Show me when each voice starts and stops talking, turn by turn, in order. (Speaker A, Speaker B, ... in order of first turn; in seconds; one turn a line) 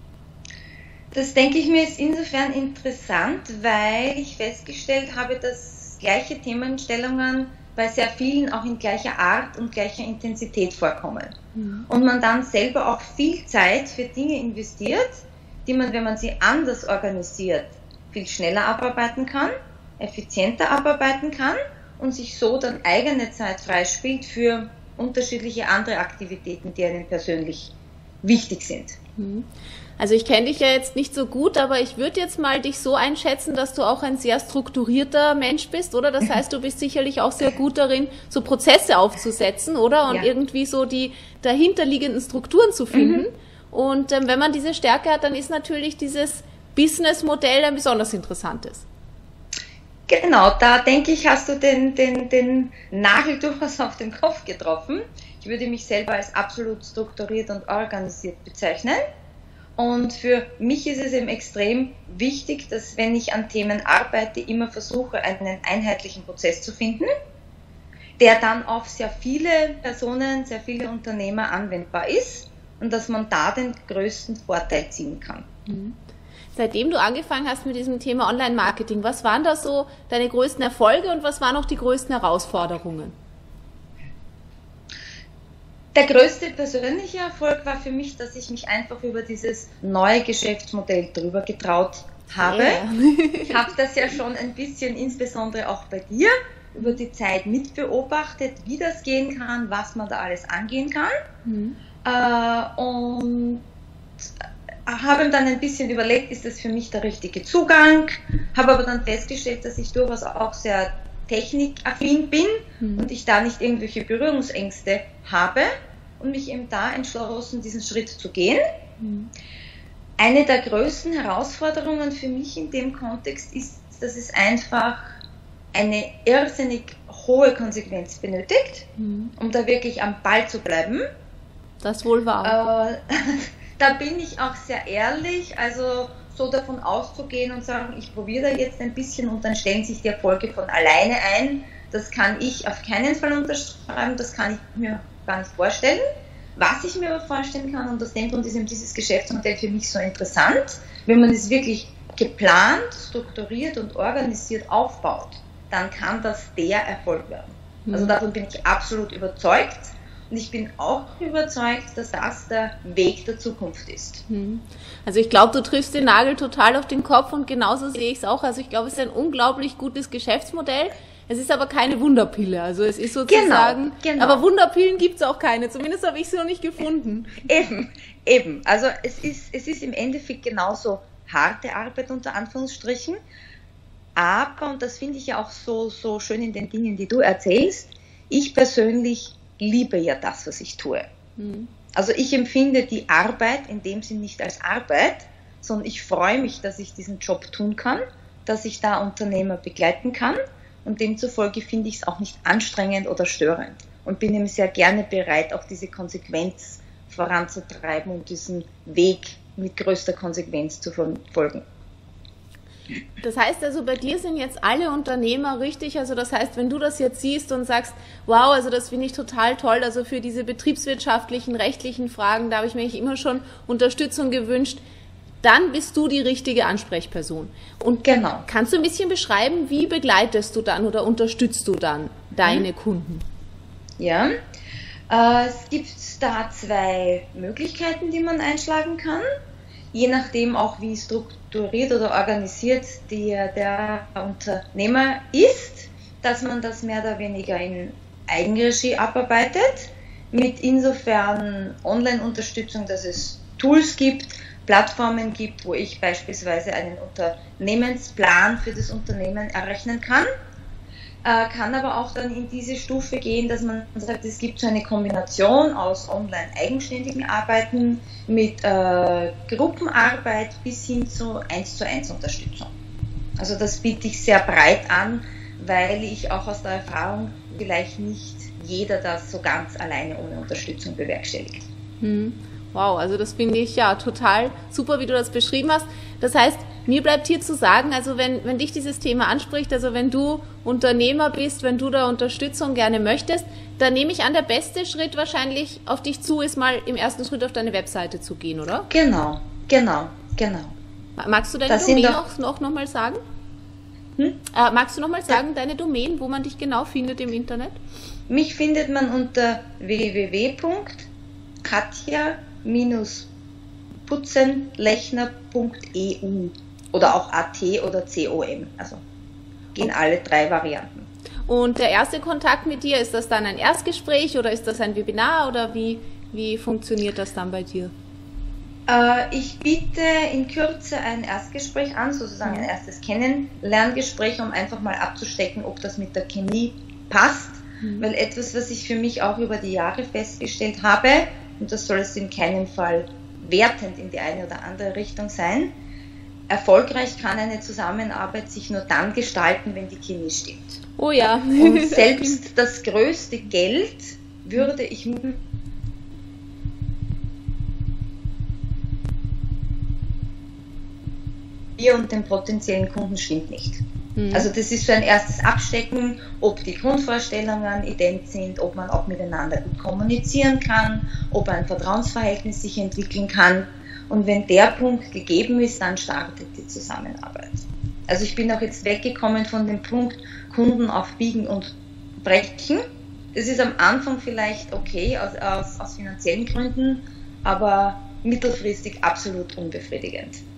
Speaker A: 1.1-11.3
Speaker B: 11.5-11.8
Speaker A: 11.9-27.7
Speaker A: 28.2-29.0
Speaker B: 29.2-29.4
Speaker B: 30.0-48.9
Speaker A: 42.9-43.2
Speaker A: 50.1-59.0
Speaker A: 59.8-67.1
Speaker A: 68.2-75.5
Speaker B: 75.7-76.0
Speaker B: 76.5-83.1
Speaker A: 85.9-92.8
Speaker B: 92.4-93.7
Speaker A: 93.5-101.1
Speaker B: 101.5-101.8
Speaker A: 102.0-103.6
Speaker A: 104.9-118.6
Speaker B: 112.8-113.1
Speaker B: 119.0-119.3
Speaker A: 120.2-125.2
Speaker A: 125.7-131.0
Speaker B: 129.0-129.3
Speaker B: 131.8-132.6
Speaker A: 132.4-146.0
Speaker A: 146.6-164.2
Speaker B: 157.8-158.1
Speaker B: 164.3-177.4
Speaker A: 173.3-174.4
Speaker A: 177.4-183.2
Speaker A: 184.2-191.0
Speaker B: 191.4-191.7
Speaker A: 191.9-211.6
Speaker B: 213.2-224.8
Speaker B: 225.4-233.2
Speaker A: 228.0-228.4
Speaker A: 234.0-234.3
Speaker A: 235.1-239.2
Speaker A: 239.9-260.3
Speaker A: 261.2-272.7
Speaker A: 273.4-281.6
Speaker B: 282.0-298.9
Speaker A: 298.9-300.7
Speaker B: 301.2-303.2
Speaker A: 301.7-302.2
Speaker B: 304.5-307.8
Speaker A: 308.3-311.1
Speaker A: 311.6-313.3
Speaker A: 314.1-319.0
Speaker A: 319.7-321.1
Speaker B: 321.4-327.9
Speaker A: 328.9-345.7
Speaker B: 337.8-338.1
Speaker A: 346.5-350.8
Speaker B: 351.0-352.4
Speaker A: 351.6-355.4
Speaker A: 361.8-382.8
Speaker B: 364.2-364.5
Speaker A: 383.3-390.4